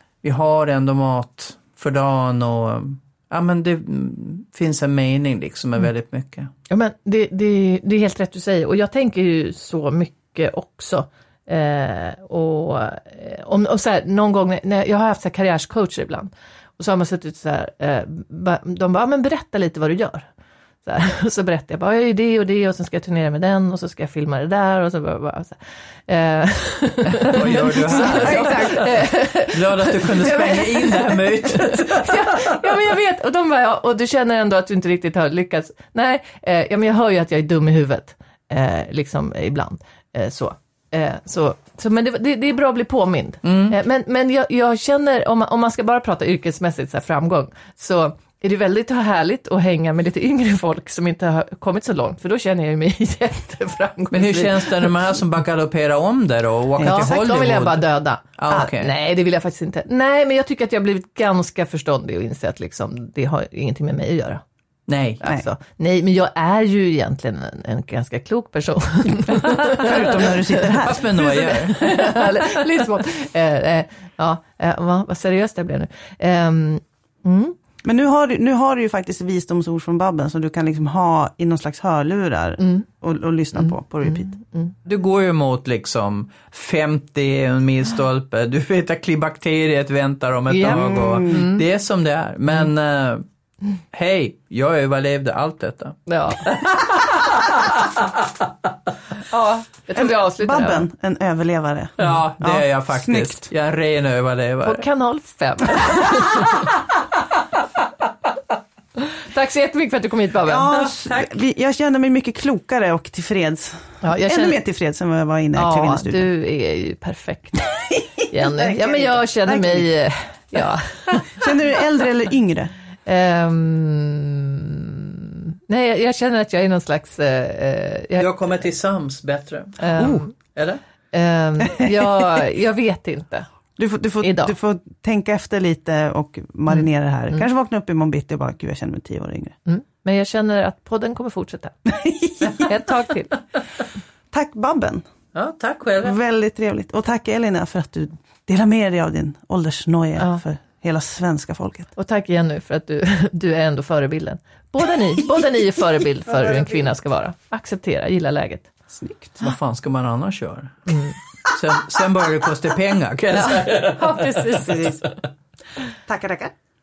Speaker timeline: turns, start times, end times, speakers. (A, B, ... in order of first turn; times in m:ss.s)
0:00.2-0:06.5 A
0:06.7-0:20.3 B
0:20.8-0:25.6 B
0:26.1-0:54.9 B
0:27.1-0:32.7 A
0:27.9-0:28.9 C
0:43.4-0:43.8 A
0:54.1-0:57.8 A
0:56.8-0:57.1 C
0:56.8-1:04.4 B
0:58.4-0:58.9 A
1:04.9-1:05.2 A
1:05.2-1:10.6 B
1:09.7-1:11.5 C
1:10.6-1:12.4 A
1:11.2-1:17.6 B
1:17.8-1:24.3 C
1:22.6-1:22.8 B
1:24.0-1:24.7 B
1:24.8-1:33.2 A
1:30.5-1:31.6 B
1:30.6-1:31.5 C
1:33.9-1:38.0 A
1:36.1-1:36.4 B
1:39.3-1:40.9 B
1:40.0-1:43.4 C
1:42.0-1:44.9 A
1:44.6-1:46.6 B
1:49.1-1:50.8 B
1:50.5-1:56.2 C
1:54.0-1:54.6 B
1:55.6-2:01.4 B
1:58.4-1:59.9 C
2:01.2-2:02.7 C
2:03.1-2:08.3 B
2:08.2-2:10.8 A
2:09.8-2:10.4 B
2:11.1-2:13.5 B
2:13.8-2:19.6 C
2:14.2-2:14.5 B
2:19.7-2:21.9 B
2:21.9-2:22.7 C
2:22.6-2:23.3 B
2:24.3-2:25.0 C
2:25.3-2:26.2 A
2:26.0-2:31.9 C
2:32.0-2:38.7 B
2:36.3-2:36.9 C
2:38.9-2:39.5 C
2:39.4-2:40.9 A
2:40.9-2:41.2 B
2:41.5-2:44.9 A
2:43.3-2:45.2 B
2:44.7-2:44.9 C
2:46.1-2:46.5 C